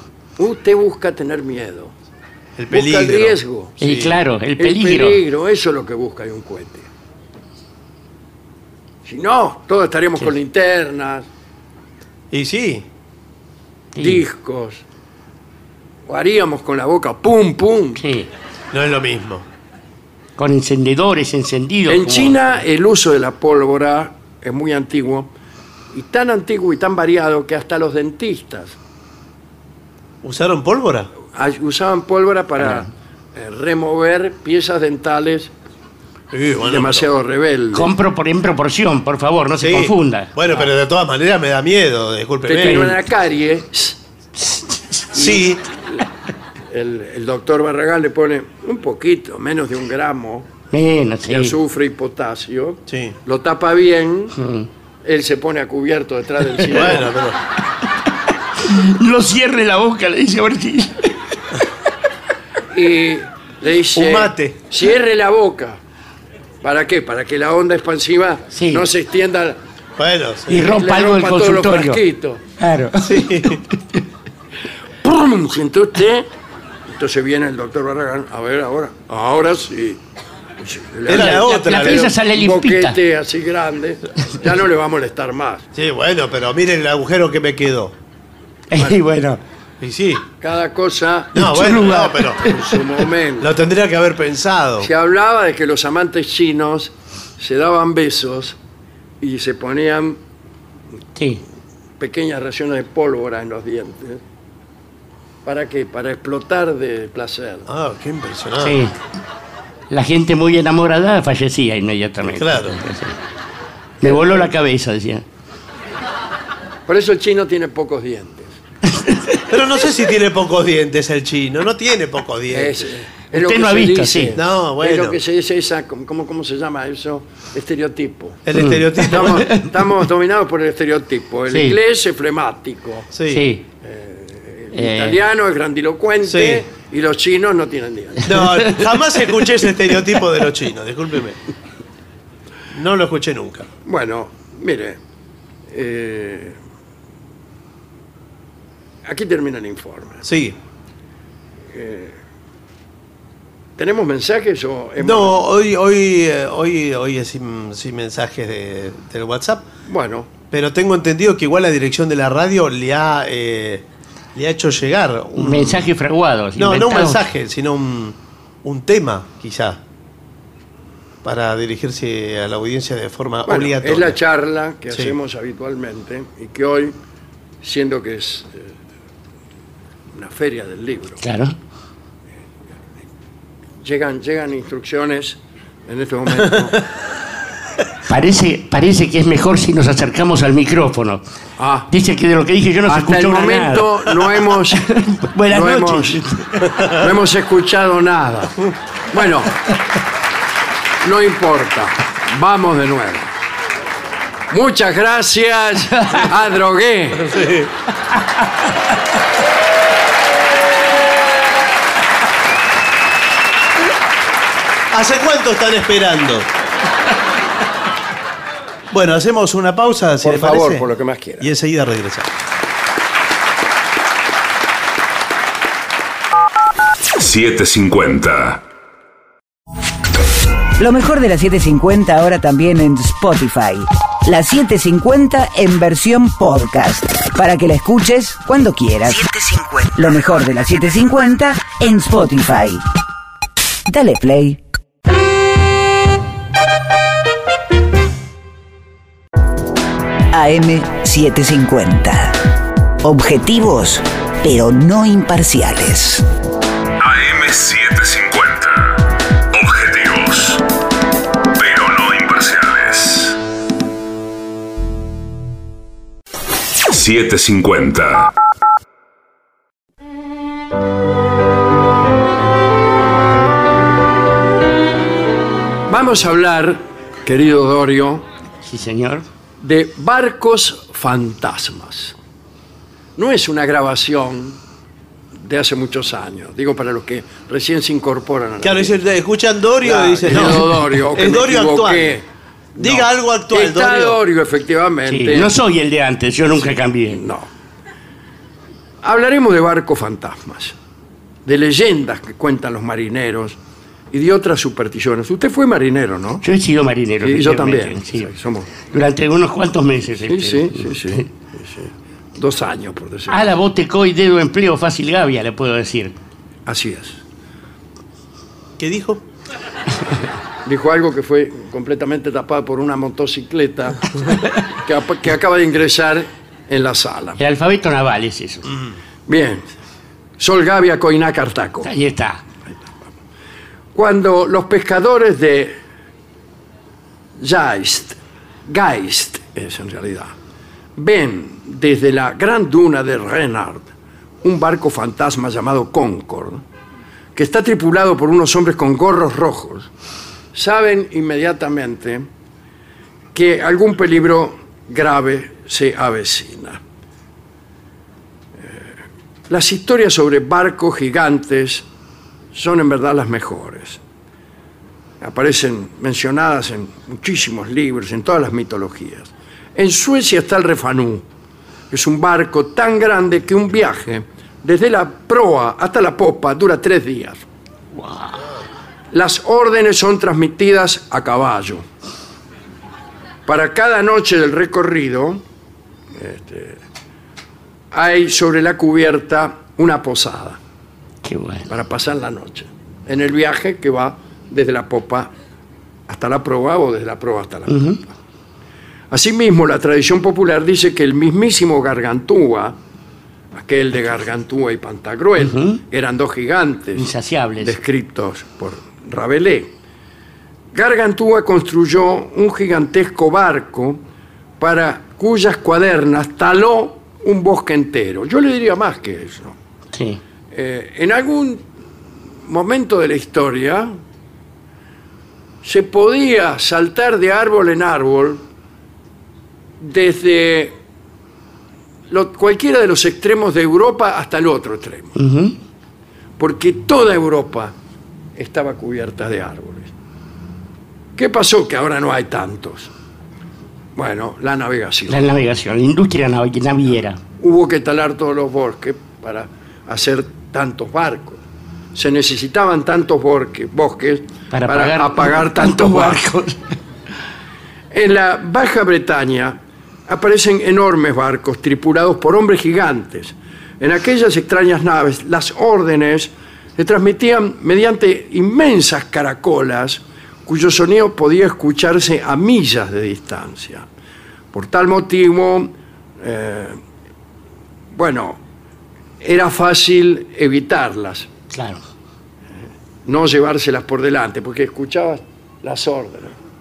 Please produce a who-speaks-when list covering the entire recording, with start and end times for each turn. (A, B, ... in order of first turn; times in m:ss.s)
0:00.4-0:01.9 A
0:02.6-0:04.2 B
0:02.7-0:03.8 A
0:03.8-0:05.2 C
0:04.6-0:06.9 A
0:09.0-0:11.3 A
0:12.3-0:12.8 B
0:13.9-0:14.2 C
0:14.0-0:14.8 A
0:16.1-0:18.0 A
0:18.0-0:18.3 C
0:18.7-0:19.4 B
0:20.4-0:22.4 C
0:21.9-0:25.3 A
0:25.9-0:28.8 A
0:30.2-0:31.1 B
0:31.3-0:35.5 A
0:36.3-0:37.1 B
0:36.6-0:37.9 A
0:37.7-0:40.3 C
0:39.6-0:43.0 B
0:42.5-0:44.0 A
0:42.6-0:42.9 C
0:44.4-0:44.8 C
0:45.1-0:45.6 B
0:45.1-0:46.0 A
0:46.7-0:50.5 A
0:50.7-0:51.5 C
0:51.3-0:54.4 A
0:52.9-0:53.2 B
0:54.4-0:54.7 C
0:55.0-0:57.1 A
0:56.7-0:57.4 B
0:58.6-1:01.1 C
1:02.7-1:05.8 A
1:03.9-1:04.6 B
1:06.6-1:09.6 A
1:08.5-1:08.8 C
1:10.0-1:10.8 B
1:10.5-1:12.0 C
1:10.5-1:12.4 A
1:12.6-1:14.0 C
1:13.0-1:13.6 B
1:15.0-1:16.3 A
1:16.9-1:20.0 A
1:20.6-1:25.6 A
1:21.1-1:22.1 B
1:21.1-1:23.0 C
1:25.7-1:27.9 B
1:28.7-1:29.4 C
1:29.8-1:30.2 B
1:30.4-1:33.5 A
1:31.3-1:32.5 B
1:31.5-1:32.0 C
1:33.4-1:34.9 B
1:34.8-1:38.6 A
1:39.2-1:40.2 A
1:41.2-1:41.4 C
1:42.0-1:44.2 A
1:45.4-1:47.6 A
1:47.7-1:48.8 B
1:48.6-1:48.9 C
1:49.9-1:53.2 C
1:52.3-1:52.8 B
1:54.0-1:55.2 C
1:54.0-1:54.5 A
1:56.9-1:58.6 A
1:58.9-1:59.4 C
1:59.5-2:02.9 B
2:02.5-2:08.4 A
2:03.3-2:04.4 C
2:04.3-2:05.2 B
2:08.4-2:09.5 B
2:08.5-2:09.6 C
2:09.0-2:13.1 A
2:11.5-2:11.8 C
2:13.1-2:13.5 B
2:13.3-2:13.6 C
2:13.8-2:18.4 A
2:14.7-2:15.2 C
2:16.2-2:16.6 B
2:18.2-2:21.4 B
2:18.4-2:18.8 C
2:22.7-2:23.7 B
2:23.8-2:25.0 A
2:25.7-2:26.6 A
2:29.0-2:30.2 A
2:30.2-2:30.6 B
2:31.7-2:32.2 A
2:33.8-2:35.4 A
2:35.0-2:39.7 B
2:39.8-2:40.3 A
2:40.5-2:45.9 B
2:45.4-2:47.2 C
2:46.6-2:49.8 B
2:51.2-2:54.2 B
2:53.5-2:57.0 A
2:54.9-2:55.2 B
2:57.6-2:58.7 A
3:00.1-3:01.2 A
3:01.2-3:01.6 C
3:03.8-3:06.8 A
3:08.1-3:11.2 C
3:11.6-3:11.9 A
3:11.9-3:13.9 C
3:12.8-3:14.8 A
3:14.8-3:16.7 C
3:15.4-3:16.2 A
3:16.6-3:17.0 B
3:16.9-3:18.6 A
3:19.1-3:19.5 A
3:21.0-3:23.3 A
3:24.5-3:27.4 A
3:27.1-3:27.7 B
3:34.9-3:36.5 B
3:38.9-3:40.8 B
3:40.2-3:41.5 A
3:41.4-3:42.3 B
3:47.2-3:48.6 D
3:50.8-4:02.8 E
4:03.9-4:04.6 E
4:10.3-4:12.4 E
4:13.0-4:16.2 E
4:17.0-4:20.6 D
4:21.5-4:23.4 D
4:26.9-4:28.3 D
4:35.9-4:38.2 A
4:38.6-4:39.2 C
4:39.6-4:42.1 A
4:43.2-4:44.6 A
4:45.3-4:49.0 A
4:48.6-4:52.2 B
4:49.8-4:55.5 A
4:52.8-4:54.2 B
4:55.1-4:57.2 C
4:57.1-4:57.5 A
4:59.0-5:00.7 A
5:01.4-5:03.6 A
5:04.1-5:06.4 A
5:06.4-5:08.3 C
5:07.2-5:08.7 A
5:08.9-5:11.2 C
5:10.3-5:13.5 A
5:13.3-5:16.1 C
5:16.6-5:17.2 A
5:18.8-5:19.2 B
5:20.6-5:27.4 A
5:27.4-5:28.7 C
5:28.7-5:28.9 B
5:29.3-5:29.6 A
5:30.4-5:31.9 A
5:31.8-5:32.4 C
5:33.9-5:35.8 A
5:37.4-5:40.3 A
5:41.0-5:43.9 A
5:44.4-5:46.6 A
5:47.4-5:49.9 A
5:50.5-5:52.2 A
5:53.3-5:56.8 A
5:58.6-5:58.9 A
5:59.5-6:01.8 A
6:02.5-6:04.0 A
6:05.2-6:11.2 A
6:11.9-6:17.4 A
6:18.0-6:18.4 C
6:19.1-6:21.8 A
6:23.4-6:25.4 A
6:26.2-6:26.8 A
6:27.9-6:30.6 A
6:31.2-6:31.7 C
6:31.7-6:35.3 A
6:36.1-6:37.9 A
6:37.7-6:38.0 C
6:39.1-6:42.8 A
6:43.5-6:47.1 A
6:45.4-6:45.8 C
6:47.0-6:47.8 C
6:47.6-6:49.7 A
6:50.7-6:54.0 A
6:54.6-6:59.5 A
6:59.9-7:00.2 C
7:00.5-7:01.6 A
7:02.4-7:03.9 A
7:05.6-7:08.4 A
7:09.8-7:10.7 A
7:12.1-7:15.1 A
7:15.2-7:15.6 C
7:16.4-7:17.7 A
7:18.4-7:19.9 A
7:21.2-7:22.9 A
7:23.9-7:25.2 A
7:25.1-7:27.2 C
7:27.4-7:31.4 A
7:31.9-7:36.2 A
7:34.5-7:36.6 C
7:37.9-7:53.8 A
7:54.5-7:56.8 A
7:57.9-7:58.4 A
7:59.2-8:01.3 A
8:01.5-8:01.8 C
8:03.0-8:06.3 A